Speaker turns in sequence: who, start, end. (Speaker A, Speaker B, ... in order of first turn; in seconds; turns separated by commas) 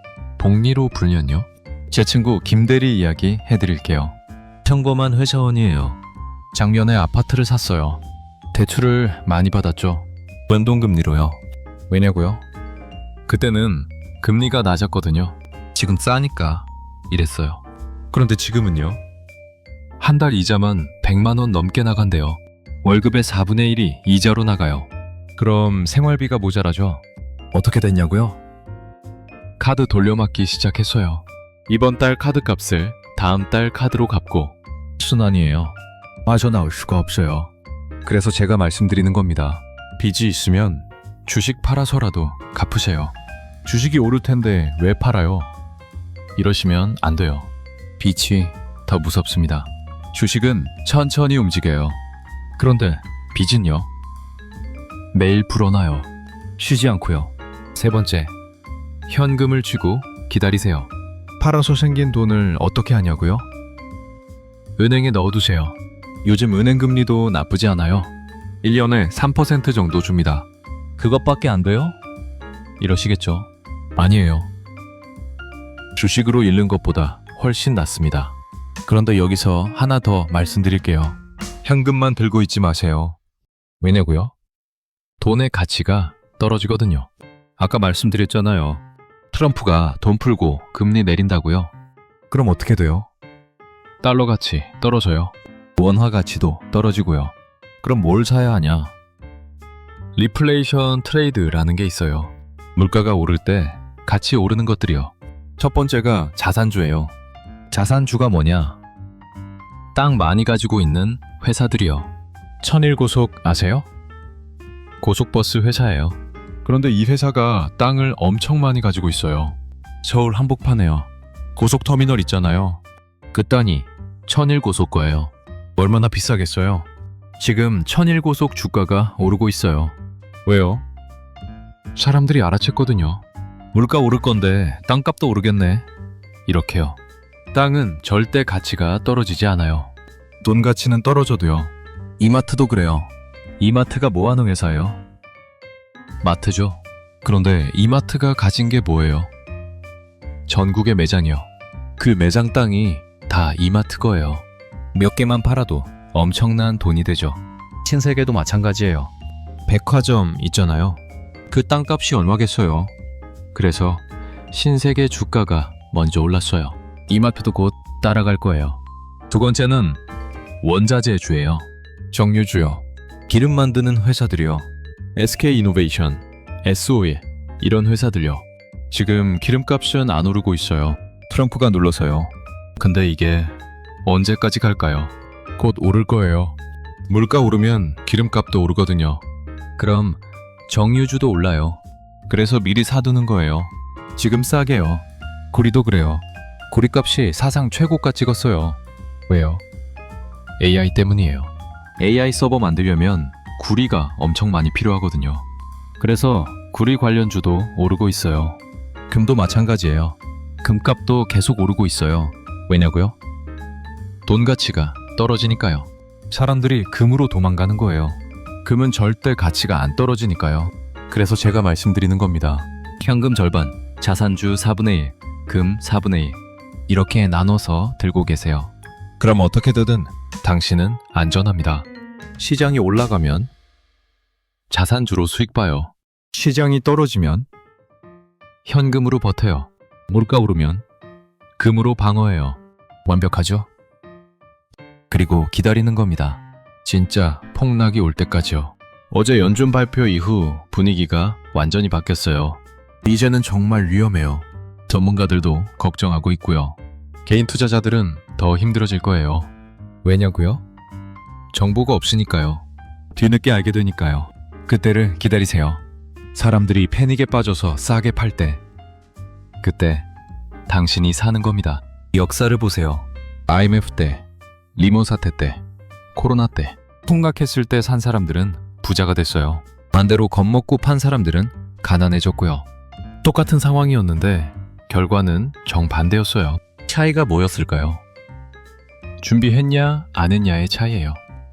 Speaker A: 0.4-6.0, Speaker A: 6.5-8.0, Speaker A: 8.5-12.4, Speaker A: 13.3-19.0, Speaker A: 20.0-28.4, Speaker A: 29.6-37.5, Speaker A: 38.0-45.5, Speaker A: 46.4-52.0, Speaker A: 52.6-53.9, Speaker A: 55.1-58.3, Speaker A: 59.1-63.5, Speaker A: 64.8-68.1, Speaker A: 68.6-70.5, Speaker A: 71.0-72.0, Speaker A: 72.8-74.5, Speaker A: 76.0-83.2, Speaker A: 83.8-84.3, Speaker A: 85.2-91.7, Speaker A: 92.3-93.1, Speaker A: 94.0-98.9, Speaker A: 100.1-107.1, Speaker A: 107.7-108.8, Speaker A: 109.9-112.1, Speaker A: 112.6-113.9, Speaker A: 115.0-126.9, Speaker A: 127.4-129.9, Speaker A: 130.4-130.8, Speaker A: 131.9-135.9, Speaker A: 136.5-137.0, Speaker A: 137.5-145.0, Speaker A: 146.2-149.3, Speaker A: 150.5-159.1, Speaker A: 159.7-162.9, Speaker A: 163.5-170.0, Speaker A: 170.6-186.6, Speaker A: 187.1-189.2, Speaker A: 189.8-199.6, Speaker A: 200.6-205.4, Speaker A: 206.0-213.2, Speaker A: 214.2-231.9, Speaker A: 232.4-233.5, Speaker A: 234.7-237.5, Speaker A: 238.6-240.8, Speaker A: 241.6-243.7, Speaker A: 245.1-259.5, Speaker A: 260.0-260.6, Speaker A: 261.5-262.6, Speaker A: 263.1-265.8, Speaker A: 266.3-268.6, Speaker A: 269.6-270.1, Speaker A: 270.7-274.2, Speaker A: 274.8-275.6, Speaker A: 276.1-282.6, Speaker A: 283.2-288.0, Speaker A: 289.2-291.2